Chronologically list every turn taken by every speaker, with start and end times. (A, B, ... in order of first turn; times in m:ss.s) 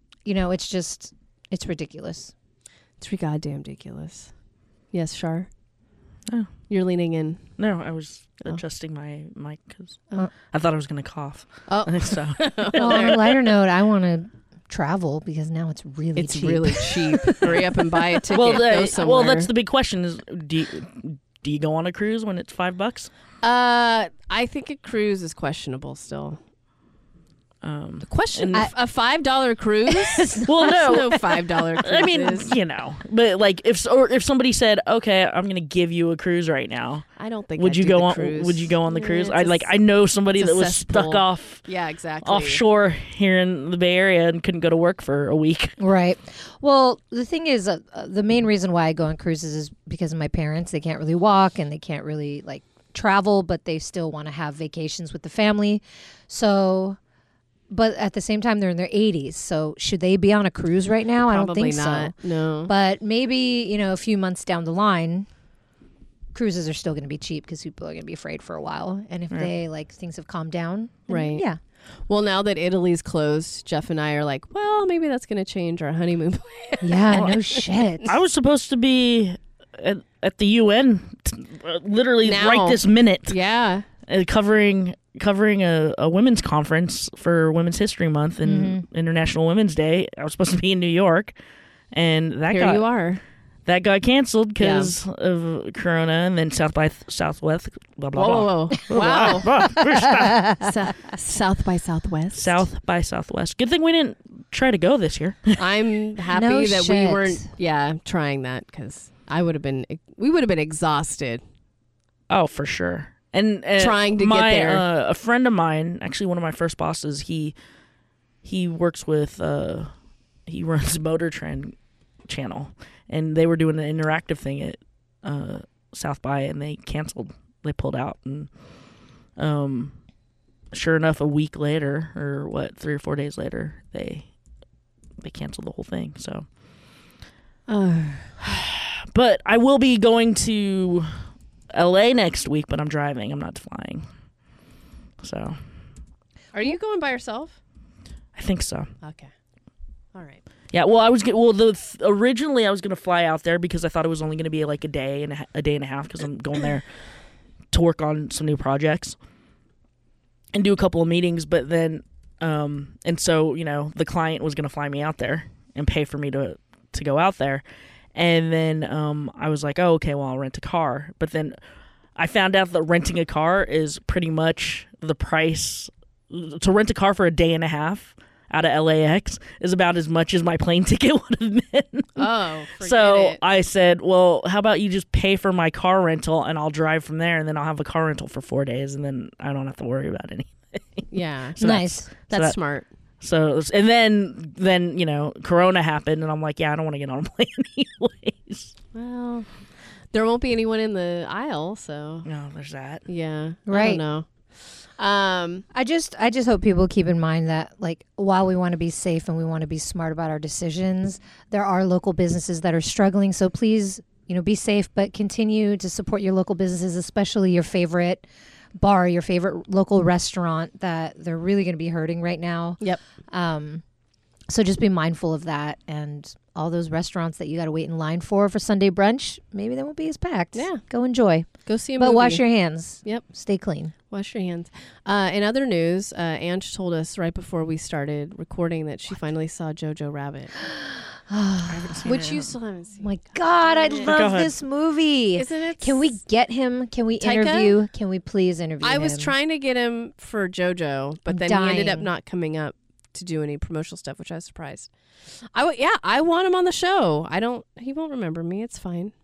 0:00.2-0:02.3 A
0:03.0-0:04.3 B
0:04.9-0:05.5 B
0:06.7-0:07.4 B
0:07.6-0:13.2 C
0:11.7-0:13.2 B
0:12.8-0:17.6 A
0:16.2-0:19.5 B
0:18.3-0:23.1 C
0:23.4-0:26.4 B
0:27.6-0:28.7 C
0:28.0-0:32.5 B
0:29.9-0:31.2 A
0:30.4-0:37.1 C
0:37.2-0:39.7 B
0:37.6-0:41.6 C
0:40.4-0:42.6 B
0:42.2-0:45.8 C
0:45.8-0:57.0 A
0:57.7-1:05.3 A
1:01.2-1:02.7 B
1:06.3-1:11.6 A
1:11.1-1:11.4 B
1:12.1-1:18.1 B
1:16.8-1:18.1 A
1:17.1-1:17.4 C
1:18.0-1:23.4 C
1:22.2-1:23.8 B
1:24.0-1:31.3 C
1:28.4-1:28.8 A
1:31.9-1:32.8 C
1:32.5-1:33.2 B
1:33.6-1:40.6 C
1:34.6-1:34.9 B
1:38.1-1:39.5 B
1:39.1-1:40.7 A
1:40.6-1:42.6 B
1:42.3-1:45.6 C
1:45.6-1:51.4 B
1:46.3-1:47.5 A
1:52.3-1:57.6 C
1:53.8-1:54.8 B
1:58.4-1:59.9 C
2:00.5-2:01.7 C
2:02.3-2:08.5 C
2:09.4-2:09.9 C
2:10.7-2:14.3 C
2:15.2-2:16.4 C
2:17.7-2:18.2 B
2:18.4-2:21.1 C
2:21.7-2:24.0 C
2:25.2-2:25.6 C
2:26.5-2:27.6 B
2:28.3-2:28.9 C
2:29.0-2:29.3 B
2:30.1-2:30.4 B
2:30.7-2:36.8 C
2:37.7-2:39.2 C
2:40.5-2:47.6 C
2:48.1-2:51.6 C
2:52.2-3:02.3 C
3:02.2-3:03.4 B
3:02.8-3:12.6 C
3:11.1-3:12.9 B
3:11.6-3:12.1 A
3:13.2-3:18.7 C
3:18.9-3:19.5 B
3:20.1-3:22.3 B
3:22.2-3:23.0 C
3:23.1-3:24.3 B
3:23.7-3:24.0 A
3:25.0-3:25.6 B
3:25.7-3:38.2 A
3:38.8-3:43.8 A
3:44.5-3:53.9 A
3:50.5-3:50.8 B
3:51.6-3:52.4 B
3:54.1-4:00.5 B
4:00.6-4:02.2 A
4:01.6-4:02.5 C
4:02.0-4:04.2 B
4:03.0-4:09.3 A
4:04.0-4:04.5 C
4:05.4-4:06.2 B
4:07.2-4:07.8 B
4:08.8-4:14.9 B
4:11.3-4:12.1 A
4:15.5-4:19.1 B